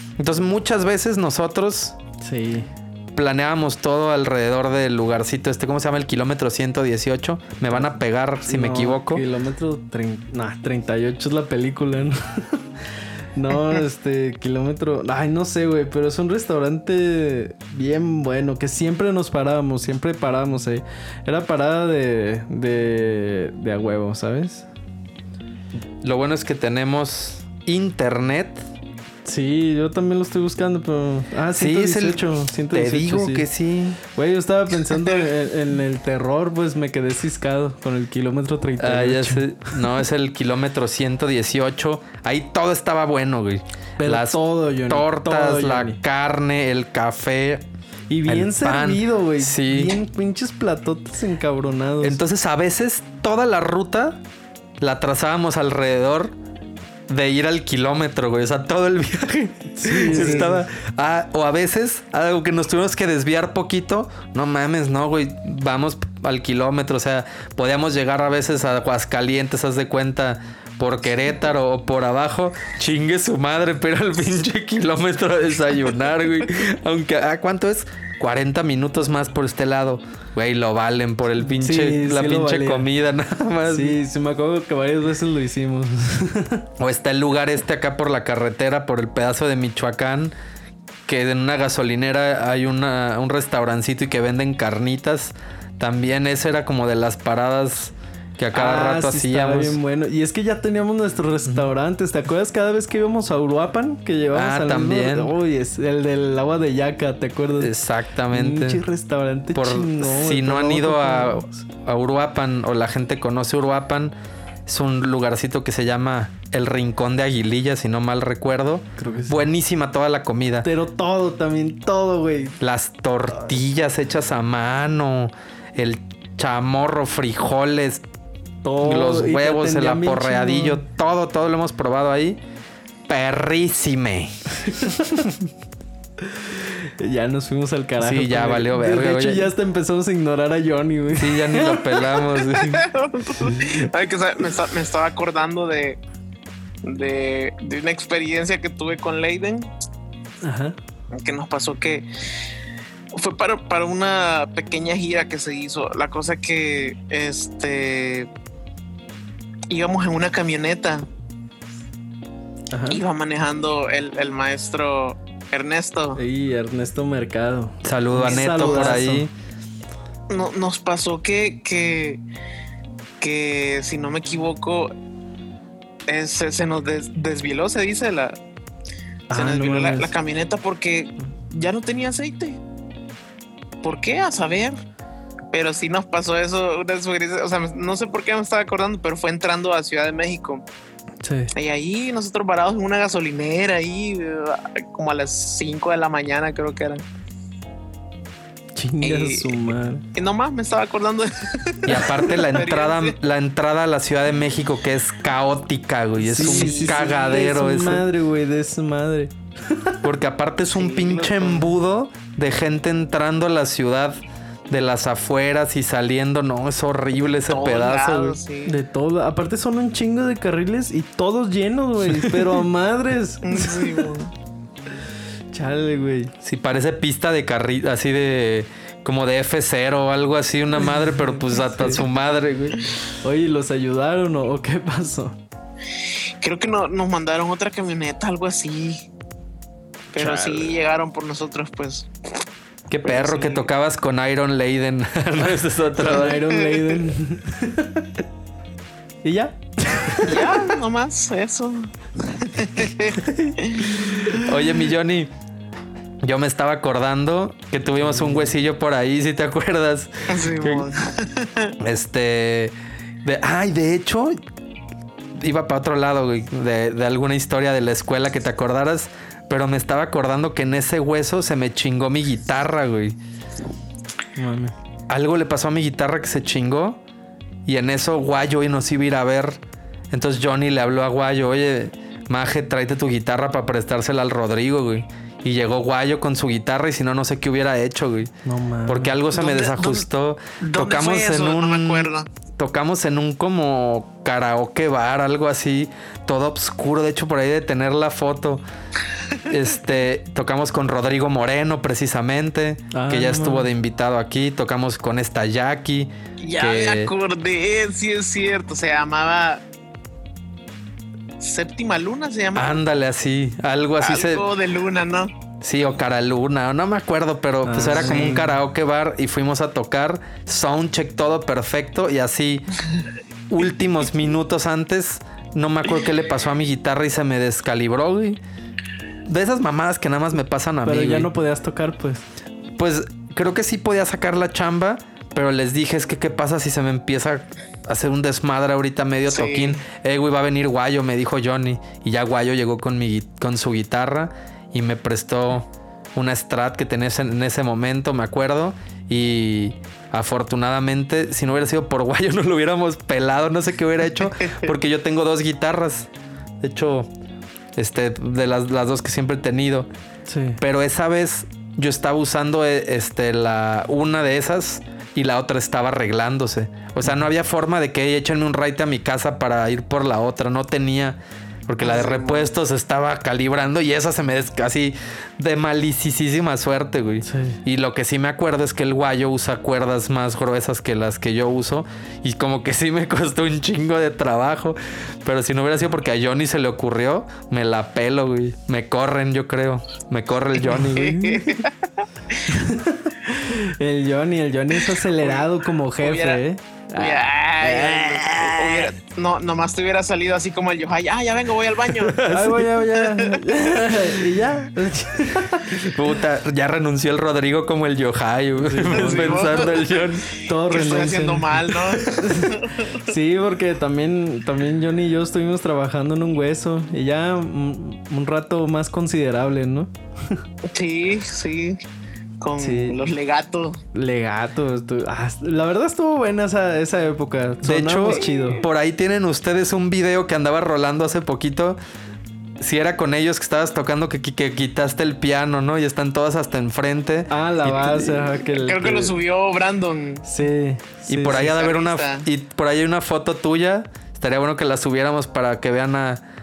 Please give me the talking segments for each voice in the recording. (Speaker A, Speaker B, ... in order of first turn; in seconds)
Speaker A: 0.2-2.0, 3.1-9.2, 26.0-28.6, 31.6-34.0, 38.8-47.6, 48.3-50.0, 52.0-54.2, 54.8-56.3, 57.1-84.0, 86.8-90.3, 91.1-99.8, 104.3-105.3, 107.6-108.8, 109.5-114.1, 114.7-120.7, 122.6-128.0, 128.8-132.4, 133.1-134.3, 138.0-139.5, 141.2-142.9, 167.8-169.3, 201.8-208.1, 210.0-214.2, 214.7-218.4, 222.2-222.5, 226.4-232.8, 242.9-246.4, 254.3-255.3, 256.2-260.9, 261.8-264.4, 265.4-273.2, 275.1-277.0, 277.7-279.6, 280.1-288.3, 288.9-298.6, 299.5-307.1, 312.6-314.5, 315.6-322.8, 323.5-328.4, 329.3-331.3, 332.8-356.1, 356.6-357.1, 357.8-359.9, 360.6-391.6, 402.0-402.7, 405.8-410.3, 427.6-431.8, 432.6-438.3, 441.1-446.2
Speaker B: 2.2-2.7, 8.4-12.7, 13.3-24.7, 29.2-33.5, 34.0-39.9, 44.0-46.0, 48.1-52.2, 59.8-60.6, 81.4-82.9, 83.7-86.7, 98.5-107.7, 108.3-111.6, 119.0-119.5, 120.6-122.6, 123.3-123.6, 128.6-130.8, 136.2-142.1, 150.4-150.8, 162.7-163.0, 166.2-169.3, 179.3-180.1, 191.2-191.5, 198.8-200.1, 206.2-210.0, 218.7-224.1, 225.5-226.3, 231.3-232.1, 233.2-235.4, 240.2-240.7, 246.0-248.2, 249.2-250.8, 253.3-254.5, 258.0-258.6, 274.4-274.7, 288.4-289.2, 302.9-303.7, 317.6-318.6, 330.9-332.2, 360.3-360.6, 377.2-377.6, 392.5-398.9, 402.2-405.9, 408.6-409.8, 410.4-420.4, 422.6-423.0, 423.9-428.6, 437.3-439.1, 440.2-441.5
Speaker C: 142.6-146.0, 146.8-149.7, 151.2-152.1, 153.2-158.3, 159.7-161.1, 162.9-166.2, 168.3-168.9, 170.3-172.2, 173.2-174.9, 176.1-178.4, 179.3-182.6, 183.8-184.8, 185.5-190.6, 191.5-197.0, 199.0-199.6, 200.1-203.2, 206.4-207.2, 210.6-211.7, 217.3-218.8, 223.4-224.3, 236.4-239.1, 240.1-242.1, 243.0-243.7, 246.5-246.9, 250.2-254.1, 260.3-261.7, 289.3-290.1, 290.6-292.3, 306.4-309.6, 311.4-312.8, 314.0-315.3, 339.3-339.8, 371.8-372.5, 390.6-392.6, 395.1-396.4, 397.0-402.2, 402.9-403.4, 408.9-410.0, 410.7-413.0, 420.7-421.8, 422.4-423.8, 428.1-428.6, 438.5-440.2, 441.3-442.3